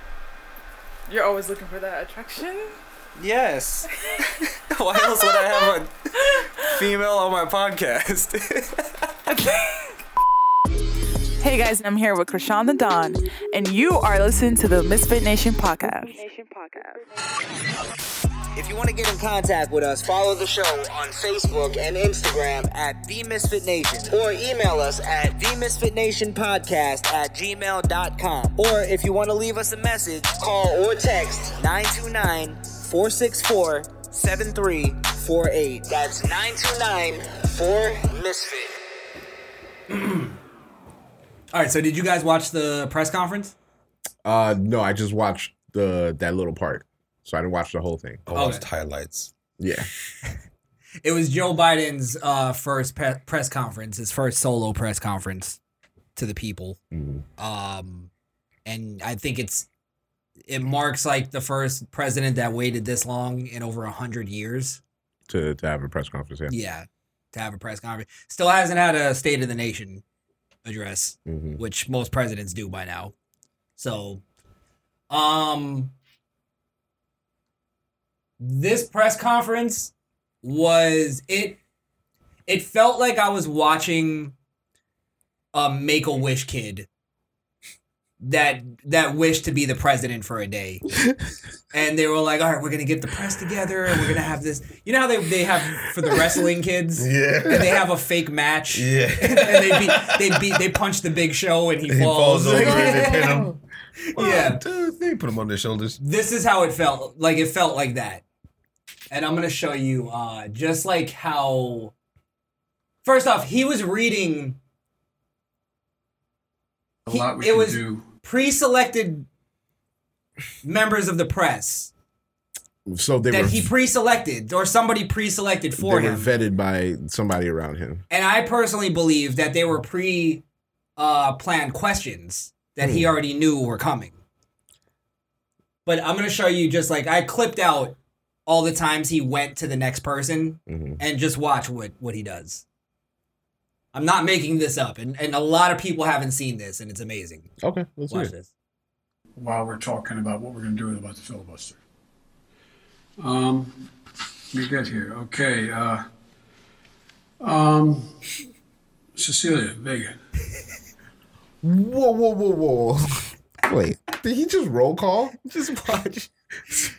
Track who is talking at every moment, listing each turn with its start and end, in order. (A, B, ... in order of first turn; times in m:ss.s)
0:01.1-0:02.8 A
0:03.2-0:03.8 B
0:04.8-0:05.9 B
0:05.0-0:05.6 A
0:06.8-0:08.4 B
0:11.4-0:17.0 A
0:18.5-0:38.7 B
0:39.9-0:40.4 C
0:41.5-0:43.5 C
0:44.2-0:48.2 D
0:48.3-0:49.3 E
0:48.3-0:48.6 C
0:49.6-0:49.9 D
0:51.0-0:55.6 C
0:56.2-0:56.8 C
0:56.9-0:57.2 D
0:57.4-0:58.1 C
0:58.6-0:59.7 C
1:00.5-1:04.8 C
1:05.3-1:06.5 D
1:06.5-1:10.0 C
1:10.6-1:13.1 C
1:11.2-1:11.6 D
1:13.8-1:14.2 C
1:15.1-1:15.9 C
1:18.4-1:19.9 C
1:20.4-1:21.6 C
1:22.5-1:24.3 C
1:25.5-1:26.9 C
1:28.2-1:30.8 C
1:31.7-1:43.5 C
1:37.0-1:37.8 E
1:38.7-1:40.4 E
1:41.9-1:43.6 E
1:42.6-1:42.9 D
1:44.1-1:44.6 C
1:44.2-1:46.0 E
1:46.0-1:48.2 C
1:49.1-1:51.9 C
1:53.0-1:54.6 C
1:57.0-1:58.0 F
1:57.1-1:59.3 C
2:00.6-2:01.9 C
2:02.9-2:03.7 D
2:03.3-2:06.3 C
2:05.8-2:08.0 D
2:08.1-2:10.4 C
2:11.0-2:14.2 C
2:12.8-2:13.1 D
2:15.8-2:18.0 C
2:18.5-2:22.6 C
2:20.7-2:21.0 D
2:23.9-2:27.5 C
2:27.6-2:28.3 D
2:28.1-2:28.5 C
2:29.4-2:31.8 F
2:33.2-2:33.9 F
2:34.5-2:36.0 F
2:37.4-2:38.1 F
2:39.1-2:40.2 F
2:41.6-2:45.4 D
2:45.4-2:46.3 C